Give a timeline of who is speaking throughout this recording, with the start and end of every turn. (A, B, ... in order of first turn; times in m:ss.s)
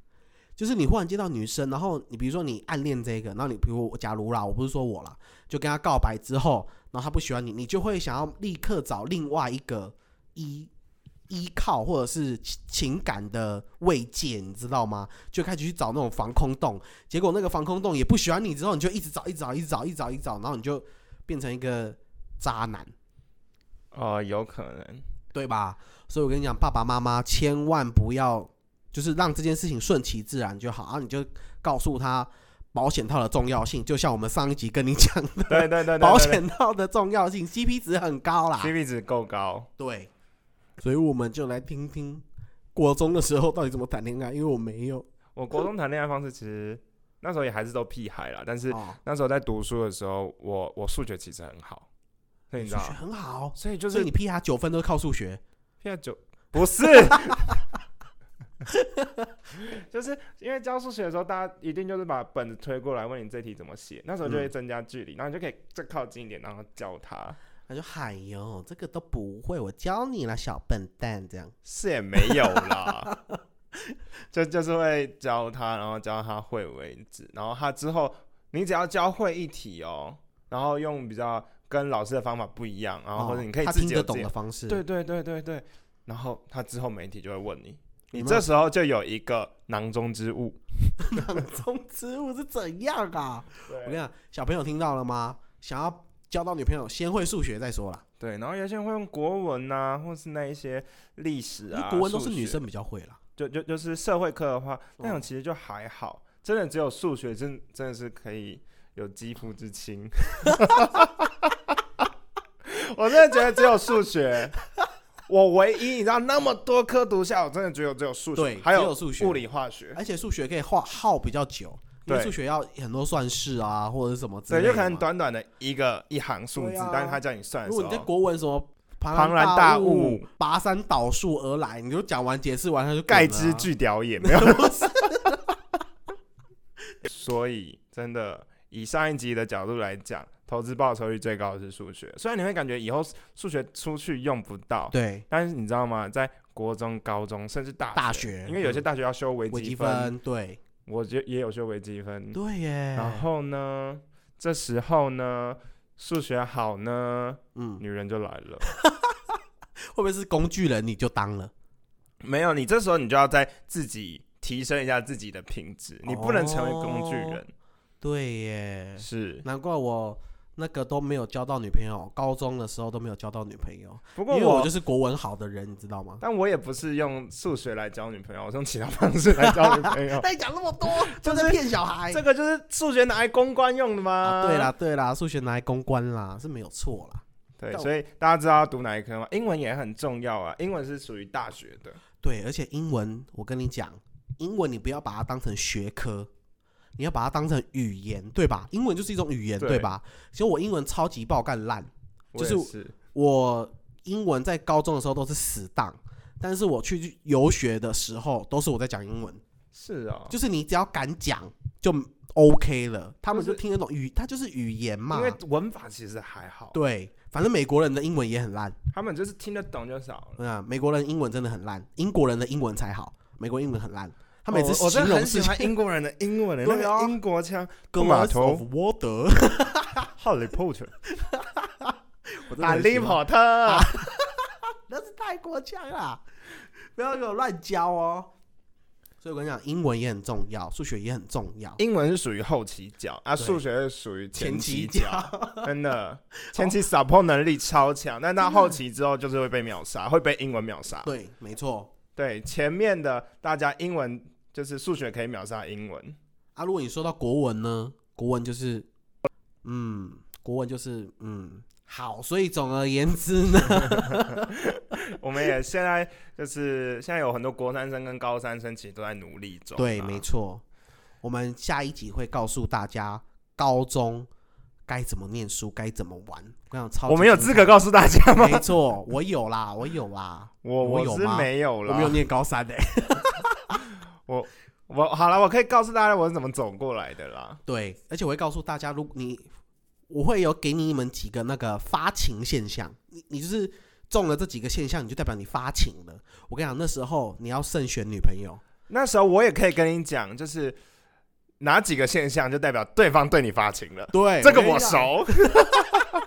0:00.6-0:10.7 A
0:11.3-0:22.9 A
0:23.9-0:25.0 B
0:25.3-0:38.7 A
0:35.5-0:36.4 B
0:38.6-0:39.7 B
0:39.8-0:40.1 A
0:40.8-0:45.1 A
0:45.4-0:51.9 B
0:48.7-0:49.0 A
0:52.5-0:53.0 B
0:52.6-0:55.4 A
0:53.6-0:54.1 B
0:55.8-0:57.6 B
0:58.7-0:59.3 A
0:59.6-1:07.4 B
1:07.7-1:11.6 A
1:11.6-1:13.1 B
1:12.3-1:13.4 A
1:14.3-1:31.3 B
1:23.2-1:24.8 A
1:28.1-1:28.5 A
1:31.0-1:38.0 A
1:33.7-1:34.0 B
1:38.2-1:42.6 B
1:41.7-1:43.2 A
1:43.4-1:52.1 B
1:45.0-1:45.3 A
1:52.6-1:54.5 B
1:55.3-2:00.0 B
1:58.4-2:05.1 A
2:02.1-2:02.4 B
2:04.5-2:08.1 B
2:06.5-2:13.7 A
2:09.1-2:10.3 B
2:13.1-2:15.2 B
2:14.2-2:15.5 A
2:17.0-2:30.2 B
2:24.9-2:25.3 A
2:28.0-2:28.8 A
2:29.5-2:30.6 A
2:30.9-2:32.4 B
2:32.3-2:33.2 A
2:33.0-2:38.7 B
2:37.6-2:37.8 A
2:38.6-2:39.4 A
2:39.9-2:41.5 A
2:42.2-2:47.5 B
2:46.0-2:47.4 A
2:48.0-2:56.2 A
2:49.0-2:49.4 B
2:54.2-2:54.7 B
2:56.2-3:00.3 B
2:59.5-3:02.2 A
3:00.8-3:04.7 B
3:04.2-3:07.9 A
3:07.6-3:12.0 B
3:12.2-3:16.3 A
3:17.0-3:29.4 A
3:19.6-3:19.9 B
3:22.3-3:23.0 B
3:29.7-3:30.4 B
3:30.3-3:35.4 A
3:33.3-3:33.6 B
3:35.1-3:36.8 B
3:36.7-3:38.8 A
3:38.9-3:40.4 B
3:40.4-3:45.8 A
3:44.5-3:48.6 B
3:46.6-3:47.2 A
3:47.9-3:50.1 A
3:50.2-3:50.9 B
3:51.1-3:56.2 A
3:52.6-3:53.9 B
3:57.0-3:58.3 A
3:59.2-4:01.8 A
4:01.8-4:11.1 B
4:04.4-4:05.7 A
4:06.5-4:06.8 A
4:11.0-4:11.9 A
4:12.2-4:16.2 B
4:16.6-4:18.9 A
4:19.6-4:24.5 A
4:23.9-4:30.2 B
4:29.8-4:30.6 A
4:31.2-4:34.3 A
4:34.9-4:37.8 A
4:37.1-4:38.7 B
4:38.3-4:43.8 A
4:40.6-4:42.2 B
4:44.2-4:47.6 B
4:47.7-4:49.5 A
4:50.1-4:58.6 A
4:58.9-5:00.8 B
5:01.6-5:06.1 B
5:04.1-5:06.1 A